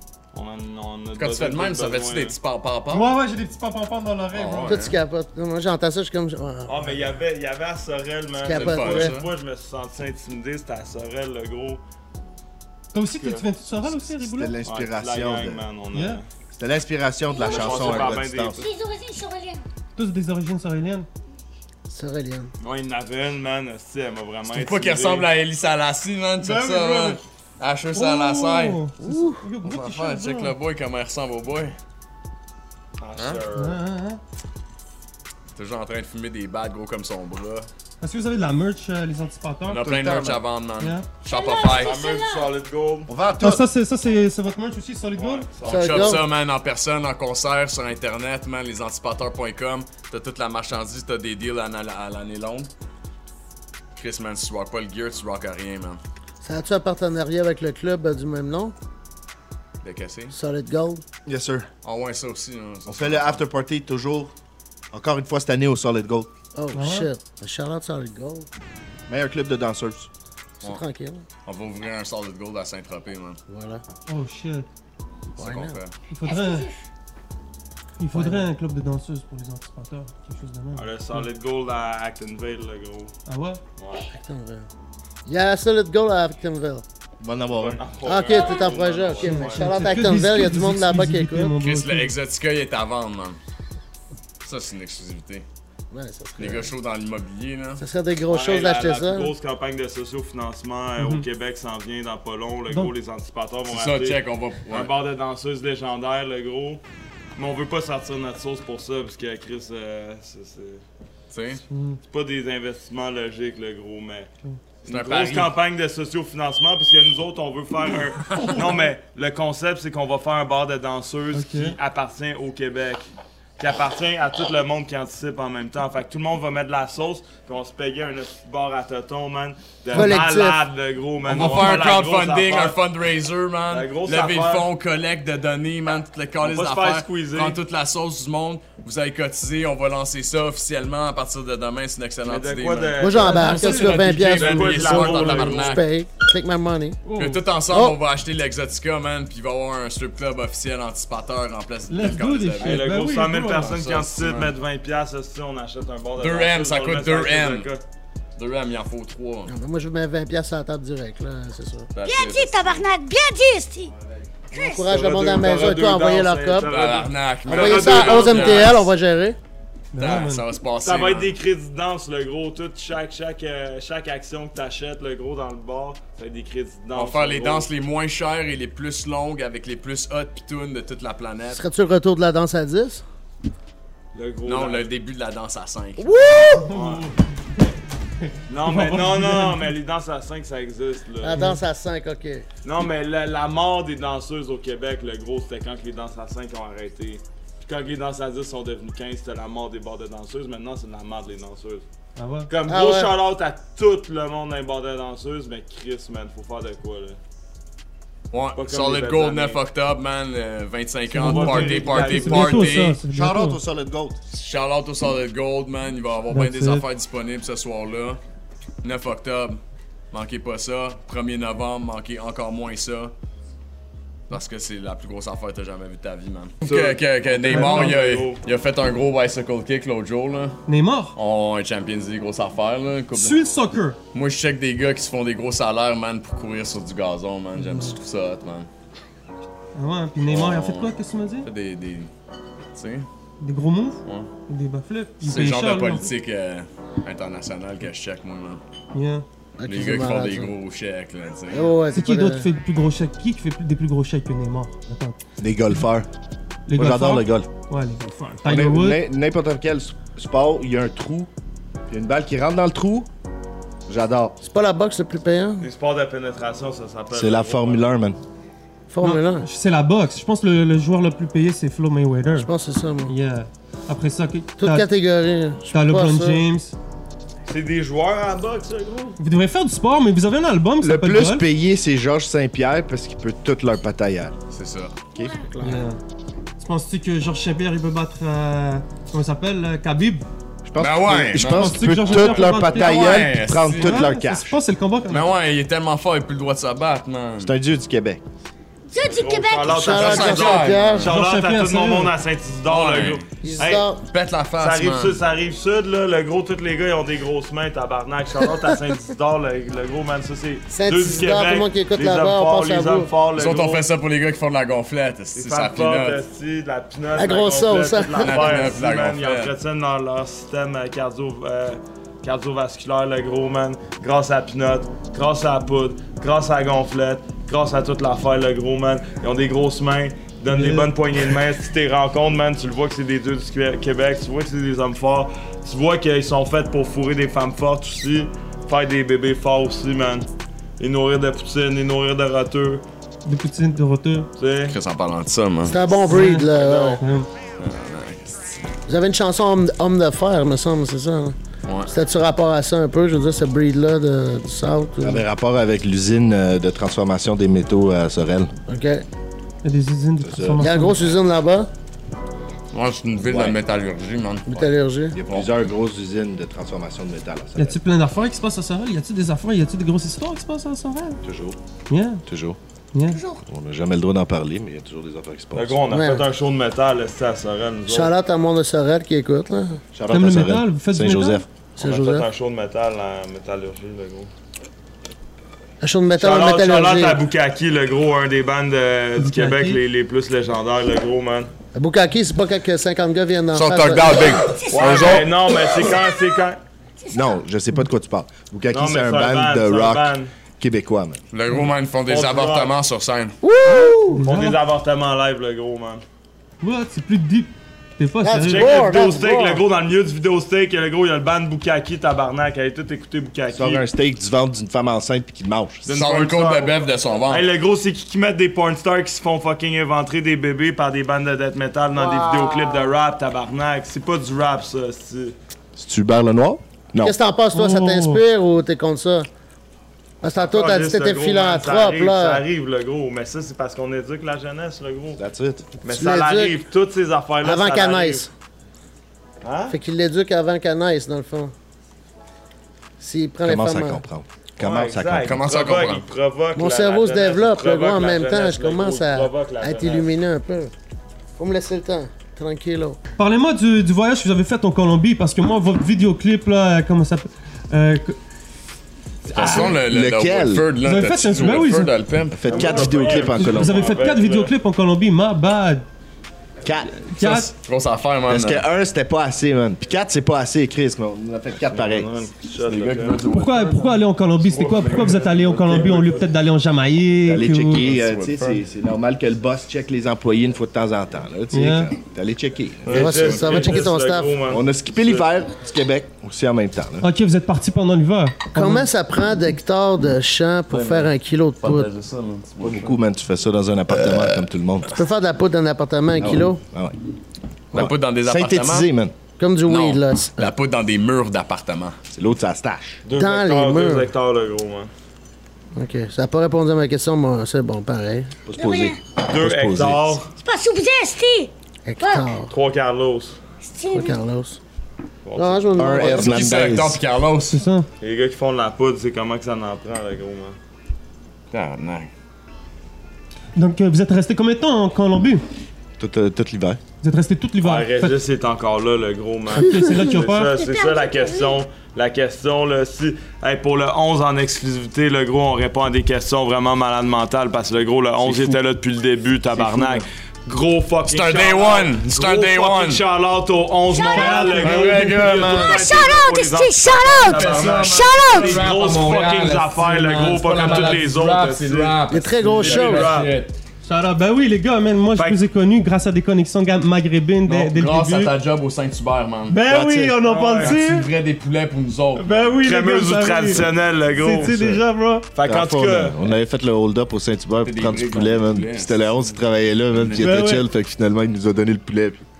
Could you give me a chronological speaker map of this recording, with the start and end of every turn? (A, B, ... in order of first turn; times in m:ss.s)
0:00.3-0:02.4 A
0:01.2-0:03.1 B
0:02.9-0:04.8 C
0:04.3-0:05.0 B
0:04.6-0:06.8 D
0:06.7-0:11.8 A
0:08.4-0:09.1 D
0:08.5-0:09.3 B
0:12.9-0:14.5 C
0:13.2-0:13.5 A
0:13.8-0:15.6 E
0:14.6-0:16.2 A
0:15.9-0:16.2 C
0:16.5-0:18.6 E
0:17.3-0:19.6 F
0:17.4-0:18.7 A
0:20.0-0:21.1 C
0:21.9-0:22.5 D
0:22.6-0:25.3 A
0:24.5-0:28.8 B
0:26.4-0:27.2 C
0:27.9-0:30.5 C
0:29.0-0:29.4 D
0:29.6-0:31.8 B
0:33.0-0:33.8 A
0:33.5-0:34.2 C
0:35.5-0:37.7 B
0:38.0-0:39.9 C
0:39.7-0:42.0 B
0:39.8-0:40.4 E
0:40.8-0:41.1 C
0:41.2-0:42.5 F
0:41.7-0:43.1 A
0:43.1-0:43.6 E
0:43.4-0:45.5 C
0:45.1-0:46.2 A
0:45.6-0:52.7 B
0:45.6-0:46.2 D
0:53.9-0:56.0 B
0:56.4-0:58.7 D
0:59.8-1:00.3 B
1:00.3-1:01.0 D
1:01.2-1:01.7 E
1:01.8-1:03.4 B
1:02.9-1:04.3 E
1:04.9-1:06.3 E
1:06.5-1:08.5 D
1:06.7-1:07.1 C
1:09.1-1:10.1 E
1:10.6-1:11.2 D
1:11.4-1:13.4 B
1:13.5-1:13.8 D
1:14.1-1:14.7 C
1:15.4-1:15.9 B
1:15.4-1:15.8 D
1:16.1-1:16.7 C
1:16.2-1:16.8 F
1:18.0-1:21.2 C
1:18.1-1:18.5 D
1:20.7-1:23.1 A
1:23.3-1:23.6 C
1:23.8-1:24.1 A
1:24.1-1:24.7 D
1:25.2-1:26.8 D
1:27.2-1:27.8 E
1:27.5-1:30.1 A
1:28.0-1:31.5 D
1:28.2-1:28.8 F
1:29.2-1:32.1 C
1:31.6-1:33.4 B
1:34.4-1:35.4 B
1:35.9-1:36.7 D
1:36.4-1:37.8 B
1:37.8-1:39.3 D
1:38.3-1:46.8 A
1:41.0-1:41.2 C
1:43.7-1:44.9 B
1:47.3-1:50.8 A
1:51.3-1:51.6 B
1:51.7-1:52.0 C
1:52.1-1:54.3 A
1:54.8-2:03.0 A
1:54.8-1:55.5 B
1:58.3-1:58.6 B
2:01.3-2:01.8 C
2:03.6-2:12.8 A
2:09.9-2:10.6 D
2:11.2-2:25.8 B
2:13.7-2:14.6 A
2:16.4-2:17.6 A
2:22.2-2:25.8 A
2:23.0-2:27.0 D
2:23.2-2:24.1 C
2:27.0-2:27.4 C
2:27.2-2:32.9 B
2:27.7-2:28.0 D
2:31.9-2:33.7 C
2:32.6-2:37.8 A
2:33.5-2:34.5 B
2:36.2-2:37.7 B
2:38.4-2:39.5 B
2:39.5-2:41.9 D
2:41.9-2:42.8 B
2:42.0-2:43.9 F
2:44.0-2:44.3 B
2:44.5-2:44.9 F
2:44.5-2:46.7 D
2:44.8-2:48.8 A
2:46.6-2:48.9 B
2:47.5-2:49.4 D
2:49.9-2:50.4 C
2:50.0-2:51.4 B
2:50.8-2:57.7 A
2:56.9-3:01.6 B
3:01.5-3:03.0 D
3:04.1-3:04.9 A
3:04.4-3:06.3 B
3:06.0-3:06.7 D
3:06.6-3:07.1 C
3:06.7-3:07.0 A
3:08.2-3:09.7 C
3:08.5-3:11.5 A
3:11.2-3:12.4 D
3:11.3-3:11.6 C
3:12.6-3:21.8 A
3:22.2-3:22.5 C
3:22.5-3:27.2 A
3:22.7-3:23.2 D
3:28.3-3:33.0 B
3:28.6-3:29.6 A
3:31.1-3:33.6 C
3:31.2-3:32.8 A
3:33.1-3:34.2 E
3:34.3-3:38.2 B
3:36.3-3:36.8 C
3:38.8-3:39.6 B
3:40.1-3:43.1 B
3:44.3-3:50.6 B
3:46.6-3:48.4 A
3:47.5-3:48.0 C
3:50.7-3:51.1 C
3:51.1-3:53.4 B
3:53.1-3:54.0 C
3:54.1-3:58.7 B
3:57.6-3:57.9 C
3:59.7-4:01.5 C
4:00.3-4:00.9 B
4:01.4-4:02.1 B
4:02.7-4:03.1 B
4:03.4-4:06.1 C
4:05.2-4:08.6 B
4:08.9-4:09.2 C
4:09.6-4:10.5 D
4:09.6-4:11.7 B
4:11.5-4:12.5 D
4:11.9-4:15.2 C
4:15.4-4:16.1 E
4:16.7-4:19.0 C
4:16.7-4:17.5 E
4:18.4-4:21.3 E
4:21.9-4:23.1 E
4:23.9-4:24.4 E
4:24.4-4:25.7 D
4:25.6-4:27.8 A
4:27.1-4:28.2 E
4:28.9-4:29.5 D
4:29.0-4:32.5 C
4:32.3-4:33.1 D
4:33.1-4:34.9 C
4:34.6-4:36.4 D
4:35.7-4:36.7 C
4:37.4-4:39.2 A
4:39.2-4:41.4 C
4:40.8-4:44.4 E
4:44.5-4:45.0 B
4:45.2-4:45.4 F
4:45.5-4:45.8 D
4:45.6-4:46.0 C
4:46.6-4:50.2 C
4:50.6-4:54.6 E
4:50.8-4:54.1 B
4:51.4-4:55.3 C
4:55.1-4:57.5 B
4:57.4-4:58.2 E
4:58.9-5:00.0 F
4:59.0-5:03.9 A
4:59.7-5:01.1 D
4:59.8-5:01.1 B
5:01.0-5:02.1 C
5:02.6-5:03.2 B
5:03.4-5:04.0 D
5:04.1-5:05.2 B
5:04.6-5:13.8 A
5:10.7-5:13.1 D
5:13.3-5:16.2 B
5:15.3-5:40.3 A
5:17.1-5:18.6 D
5:18.2-5:19.5 B
5:30.5-5:30.9 C
5:40.8-5:42.8 A
5:43.2-5:44.3 C
5:44.4-5:44.8 A
5:44.7-5:45.8 B
5:45.6-5:47.0 D
5:46.1-5:46.5 C
5:46.5-5:47.0 A
5:47.0-5:47.3 C
5:47.6-5:48.5 B
5:48.9-5:51.4 D
5:51.6-5:51.9 B
5:51.9-5:55.2 D
5:55.0-5:58.5 E
5:58.7-5:59.0 D
5:59.6-6:01.0 C
6:00.2-6:00.7 E
6:00.6-6:01.7 D
6:02.7-6:04.7 B
6:03.2-6:03.6 E
6:04.5-6:05.2 D
6:05.1-6:07.8 E
6:07.6-6:11.2 C
6:11.2-6:11.6 E
6:11.9-6:12.2 C
6:12.2-6:12.6 E
6:12.9-6:13.2 C
6:13.1-6:13.4 F
6:13.4-6:15.8 E
6:15.5-6:18.1 A
6:15.9-6:16.3 D
6:17.9-6:19.8 D
6:19.9-6:21.4 E
6:20.1-6:21.4 C
6:21.8-6:22.3 D
6:21.8-6:24.3 A
6:25.8-6:27.2 D
6:26.2-6:31.5 A
6:29.2-6:29.8 C
6:31.7-6:34.5 D
6:33.5-6:35.3 B
6:34.2-6:36.4 F
6:34.7-6:36.6 A
6:37.0-6:37.4 F
6:37.1-6:41.2 E
6:38.7-6:40.3 A
6:41.3-6:43.4 B
6:42.1-6:42.7 A
6:43.4-6:44.2 D
6:44.1-6:44.6 C
6:44.2-6:46.0 A
6:46.6-6:48.9 C
6:48.2-6:49.6 D
6:48.4-6:53.8 A
6:53.5-6:55.8 E
6:55.8-6:56.7 A
6:55.9-6:57.5 B
6:57.3-7:05.3 A
7:02.0-7:02.9 D
7:05.8-7:07.2 E
7:07.0-7:09.3 D
7:07.5-7:08.2 C
7:10.2-7:12.4 D
7:10.3-7:15.2 A
7:15.2-7:15.7 E
7:15.8-7:18.3 A
7:15.9-7:16.6 D
7:17.4-7:18.3 D
7:19.4-7:19.8 A
7:19.7-7:21.5 D
7:23.0-7:24.0 D
7:23.4-7:25.4 E
7:24.6-7:30.1 A
7:25.2-7:26.0 B
7:26.5-7:30.7 D
7:31.4-7:33.0 D
7:33.2-7:38.2 C
7:39.2-7:39.7 C
7:39.3-7:43.2 B
7:39.4-7:40.6 E
7:40.8-7:41.9 C
7:42.3-7:43.9 E
7:42.4-7:44.5 A
7:43.3-7:45.8 C
7:46.6-7:46.9 E
7:46.9-7:47.5 C
7:47.2-7:48.6 B
7:48.3-7:52.1 E
7:51.7-7:53.2 A
7:52.6-7:56.2 B
7:53.3-7:57.8 C
7:55.6-7:56.3 A
7:57.2-8:03.4 E
7:57.7-7:58.6 B
8:01.5-8:01.9 C
8:02.8-8:03.9 B
8:02.9-8:05.2 A
8:02.9-8:04.4 D
8:04.5-8:07.1 E
8:07.0-8:08.9 C
8:08.5-8:11.9 D
8:10.7-8:13.0 B
8:12.6-8:14.9 E
8:14.0-8:14.4 B
8:14.9-8:16.6 D
8:16.2-8:17.0 E
8:17.7-8:18.9 B
8:17.7-8:19.1 E
8:19.4-8:20.5 D
8:19.6-8:22.0 B
8:22.1-8:23.0 E
8:23.0-8:24.9 A
8:23.1-8:24.1 D
8:25.7-8:28.3 D
8:28.4-8:30.2 E
8:28.5-8:29.0 F
8:29.2-8:30.3 A
8:30.4-8:32.4 F
8:31.8-8:32.5 D
8:32.5-8:33.4 A
8:33.6-8:34.2 F
8:33.9-8:34.6 D
8:35.2-8:36.2 A
8:35.4-8:36.6 D
8:35.8-8:37.0 E
8:36.0-8:37.6 B
8:37.5-8:37.9 C
8:38.0-8:40.6 A
8:41.5-8:42.1 B
8:43.6-8:45.4 C
8:46.0-8:46.8 E
8:47.0-8:48.2 C
8:47.6-9:12.0 A
8:49.5-8:50.5 C
8:50.5-8:51.6 F
8:58.2-8:58.5 B
8:59.5-9:00.0 E
9:01.1-9:03.0 B
9:03.9-9:04.6 F
9:04.1-9:05.1 C
9:04.6-9:05.8 B
9:05.4-9:08.6 F
9:07.2-9:13.6 B
9:12.1-9:13.1 D
9:12.6-9:13.3 A
9:13.8-9:18.3 C
9:15.2-9:15.4 A
9:17.4-9:19.6 B
9:19.5-9:21.1 C
9:19.7-9:20.2 E
9:20.2-9:20.8 A
9:20.6-9:22.6 B
9:22.2-9:25.3 C
9:22.6-9:24.8 A
9:25.3-9:26.2 A
9:25.4-9:32.2 E
9:27.6-9:29.4 B
9:29.9-9:30.3 B
9:30.2-9:30.6 C